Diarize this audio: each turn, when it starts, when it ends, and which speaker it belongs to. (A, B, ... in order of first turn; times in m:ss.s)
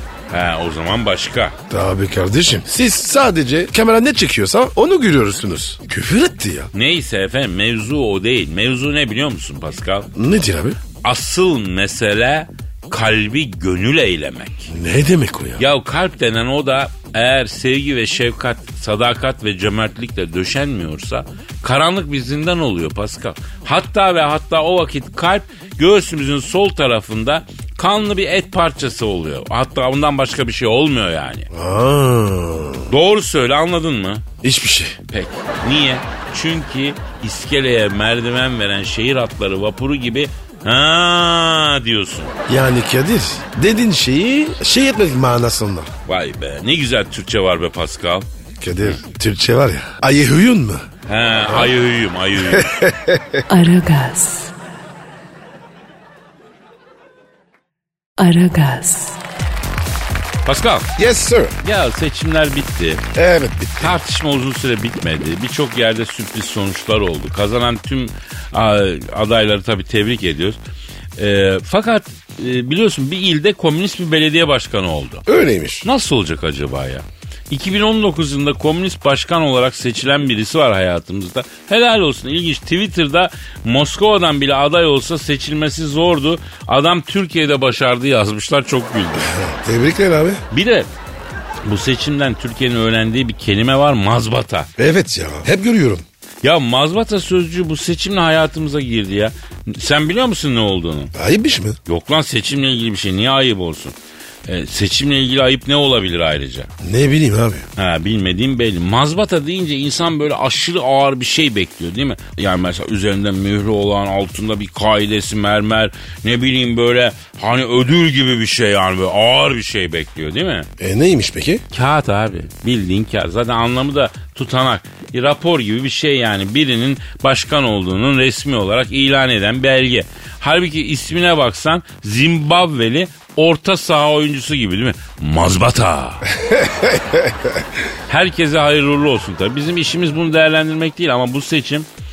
0:00.3-0:01.6 A
0:01.7-0:06.7 B
0:06.7-0:10.1 A
0:10.2-0:10.8 B
0:11.0-0:14.7 A
0:14.7-0:15.6 B
0:15.6-0:31.5 A
0:31.5-0:32.9 B
0:32.9-0:34.3 A
0:34.4-0:35.0 B
0:35.1-0:42.3 A
0:42.5-0:45.9 B
0:46.1-0:48.3 A
0:48.6-0:50.9 B
0:51.1-0:52.7 A
0:52.4-0:53.4 B
0:53.5-0:54.5 C
0:58.2-0:59.2 C
1:00.5-1:00.9 A
1:01.0-1:01.6 B
1:01.6-1:03.0 A
1:03.2-1:04.0 B
1:03.8-1:10.6 A
1:11.2-1:15.2 A
1:15.3-1:15.9 B
1:15.8-1:29.3 A
1:29.2-1:30.4 B
1:30.5-1:30.9 A
1:31.7-1:34.7 A
1:34.8-1:36.0 B
1:36.4-1:41.1 A
1:41.1-1:41.8 B
1:41.9-1:44.0 A
1:44.5-1:46.7 A
1:46.8-1:47.7 B
1:47.8-2:00.7 A
2:00.8-2:01.6 B
2:01.7-2:16.3 A
2:16.4-2:17.6 B
2:18.1-2:21.9 A